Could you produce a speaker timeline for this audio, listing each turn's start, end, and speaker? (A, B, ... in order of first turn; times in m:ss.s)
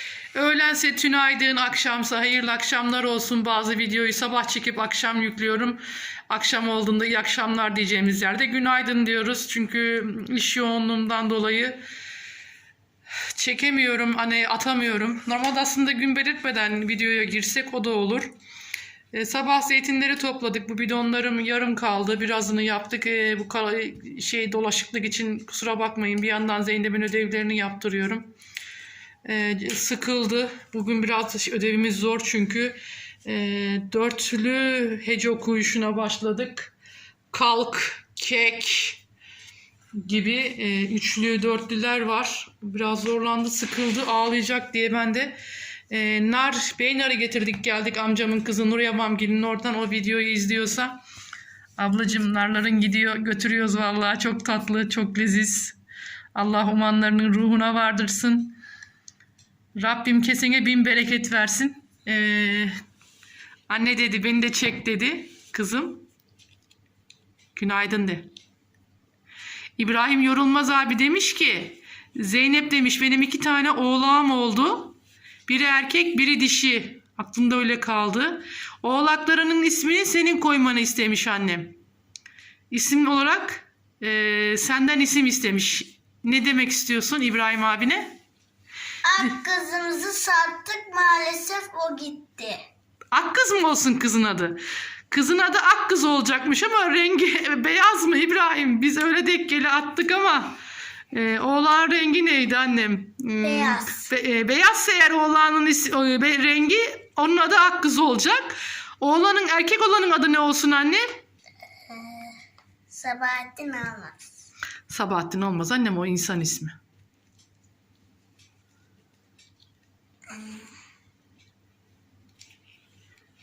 0:00.3-0:11.8 A
0:13.3-0:18.3 A
0:19.1-0:28.3 A
0:29.2-0:36.7 A
0:37.3-0:39.0 A
0:40.0-0:45.4 A
0:45.9-0:51.0 A
0:51.8-0:55.8 A
0:56.4-0:58.6 A
0:59.8-1:02.7 A
1:03.7-1:06.1 A
1:07.6-1:08.3 A
1:09.8-1:21.8 A
1:22.7-1:28.2 A
1:29.0-1:32.6 B
1:33.1-1:40.6 A
1:41.1-1:51.1 A
1:43.4-1:44.0 B
1:51.9-1:52.4 B
1:52.9-1:54.2 B
1:54.9-1:56.8 A
2:00.3-2:00.7 B